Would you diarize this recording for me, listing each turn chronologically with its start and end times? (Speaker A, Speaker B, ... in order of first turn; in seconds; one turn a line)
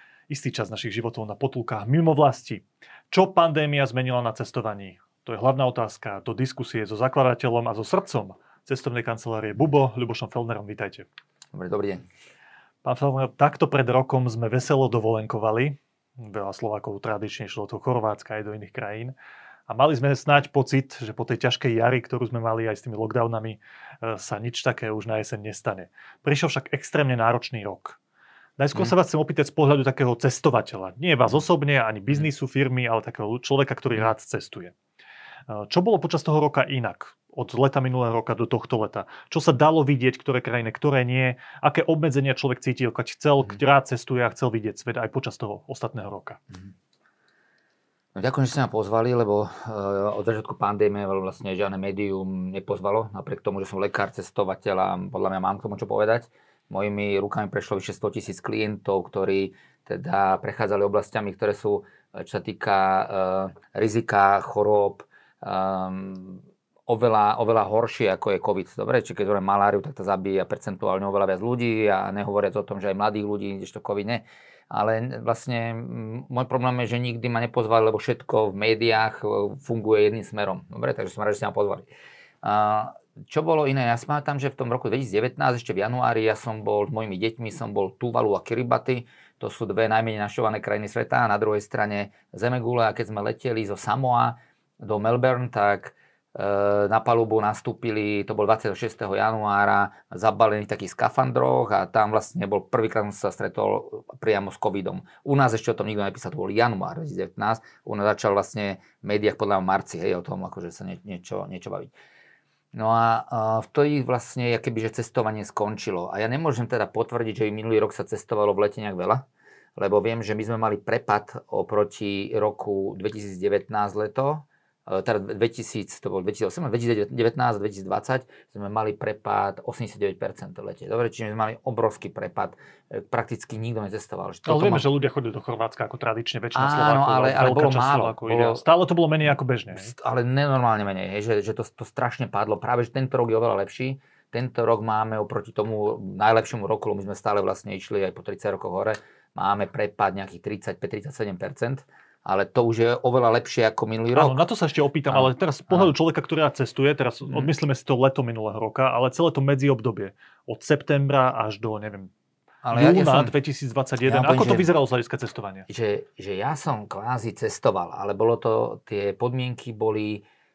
Speaker A: 0.3-11.1
Speaker B: 11.5-12.1
Speaker A: 12.8-19.1
Speaker A: 19.7-28.0
Speaker A: 28.6-34.8
Speaker A: 35.5-46.4
Speaker B: 48.1-81.9
Speaker B: 82.4-111.9
Speaker B: 112.7-119.2
Speaker B: 119.8-134.9
Speaker A: 134.5-139.9
Speaker B: 136.5-138.6
Speaker B: 139.7-154.4
Speaker A: 154.2-162.1
Speaker B: 155.1-155.9
Speaker B: 157.2-157.5
Speaker B: 162.6-163.3
Speaker A: 162.7-165.7
Speaker B: 164.0-164.7
Speaker B: 165.7-170.2